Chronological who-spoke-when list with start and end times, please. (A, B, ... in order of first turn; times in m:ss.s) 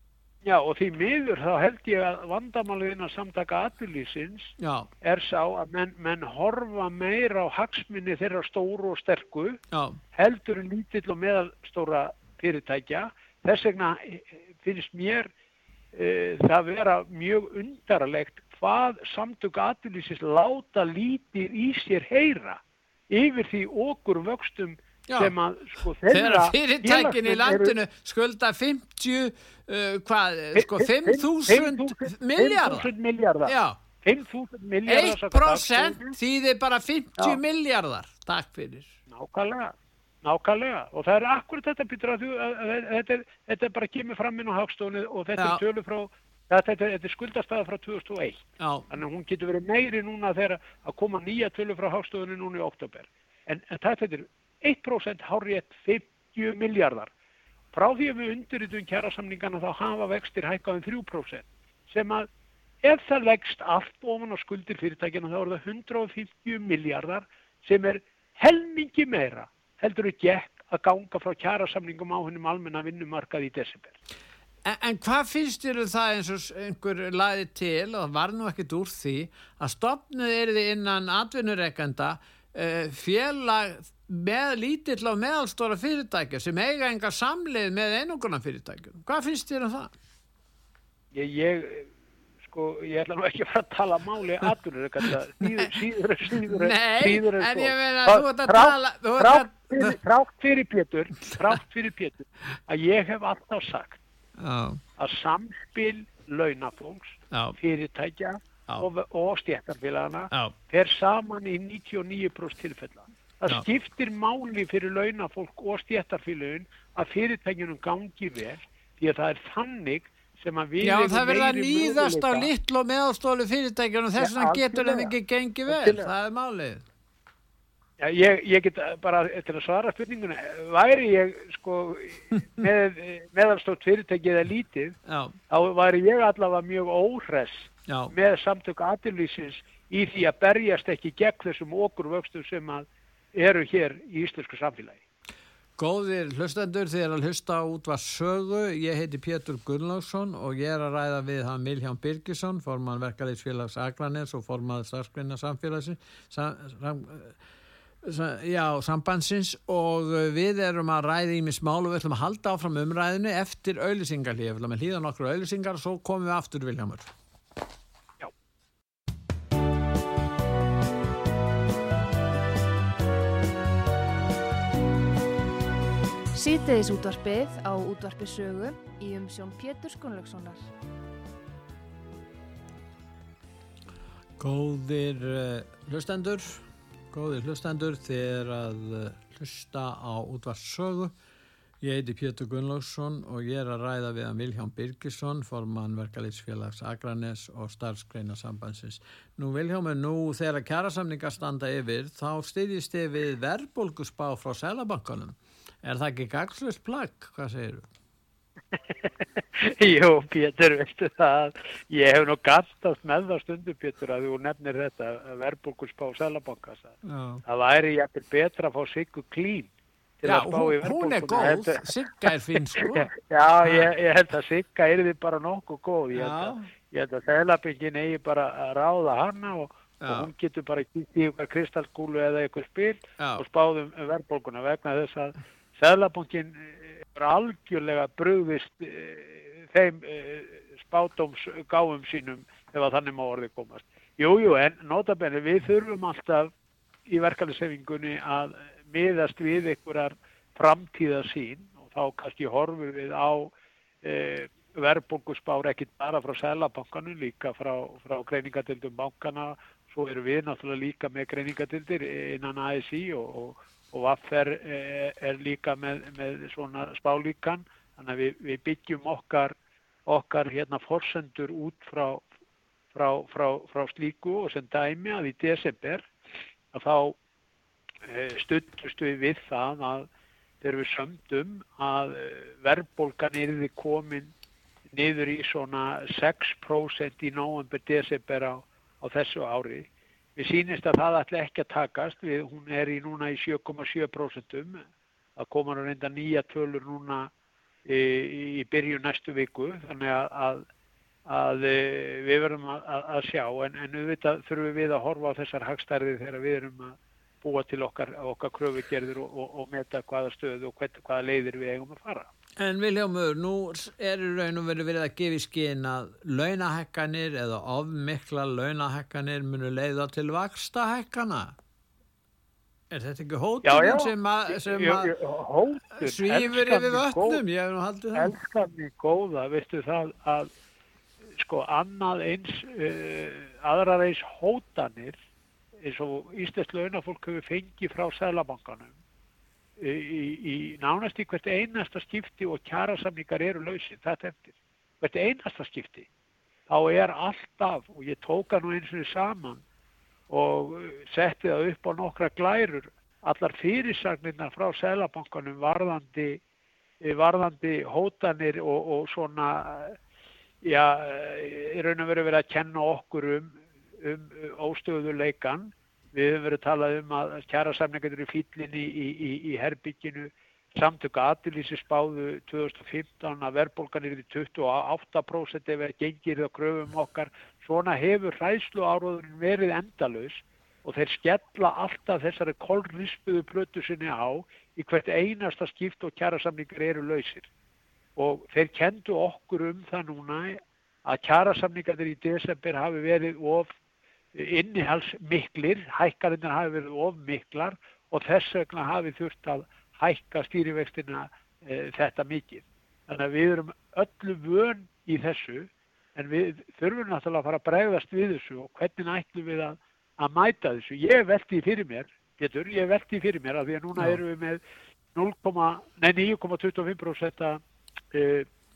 0:00.4-0:04.5 A
0:04.6-0:04.9 B
0:05.0-0:09.6 A
0:09.7-0:10.0 B
0:10.2-0:15.3 A
0:15.9-0:27.8 A
0:25.1-0:25.3 B
0:26.1-0:32.9 B
0:30.5-0:36.2 A
0:33.5-0:33.8 B
0:34.9-0:39.0 B
0:39.1-0:57.1 A
0:45.4-0:45.6 B
0:48.6-0:48.9 B
0:57.7-1:02.3 A
1:02.8-1:14.0 A
1:14.6-1:29.9 B
1:31.1-1:31.9 A
1:32.4-1:44.0 A
1:36.3-1:40.0 B
1:44.4-1:44.8 B
1:45.0-2:02.5 A
1:47.3-1:47.6 B
2:00.8-2:06.8 B
2:04.2-2:05.1 A
2:05.7-2:06.1 A
2:08.0-2:15.0 A
2:15.1-2:15.4 B
2:15.5-2:25.0 A
2:17.9-2:18.1 B
2:25.8-2:37.4 B
2:38.0-2:47.1 B
2:56.4-3:00.7 C
3:04.4-3:11.1 B
3:11.8-3:27.9 B
3:28.7-4:06.5 A
3:37.0-3:37.4 B
3:40.2-3:43.1 B
3:46.2-3:46.7 B
3:50.0-3:50.3 B
3:53.2-3:53.4 B
4:07.1-4:32.2 A
4:32.9-4:36.1 A
4:36.7-4:37.2 A
4:38.1-4:40.1 A
4:40.6-4:44.3 A
4:44.9-4:54.8 A
4:55.4-4:57.3 A
4:57.9-5:00.6 A
5:01.3-5:12.3 A
5:12.6-5:21.6 B
5:22.9-5:25.1 B
5:23.6-5:27.4 A
5:25.9-5:28.4 B
5:28.1-5:30.5 A
5:31.4-5:35.2 A
5:35.8-5:39.0 A
5:39.8-5:46.1 A
5:46.7-5:49.6 A
5:50.3-5:56.4 A
5:57.0-6:00.0 A
6:00.6-6:27.5 A
6:28.2-6:33.7 A
6:34.3-6:54.6 A
6:55.2-6:57.6 A
6:58.1-6:58.5 A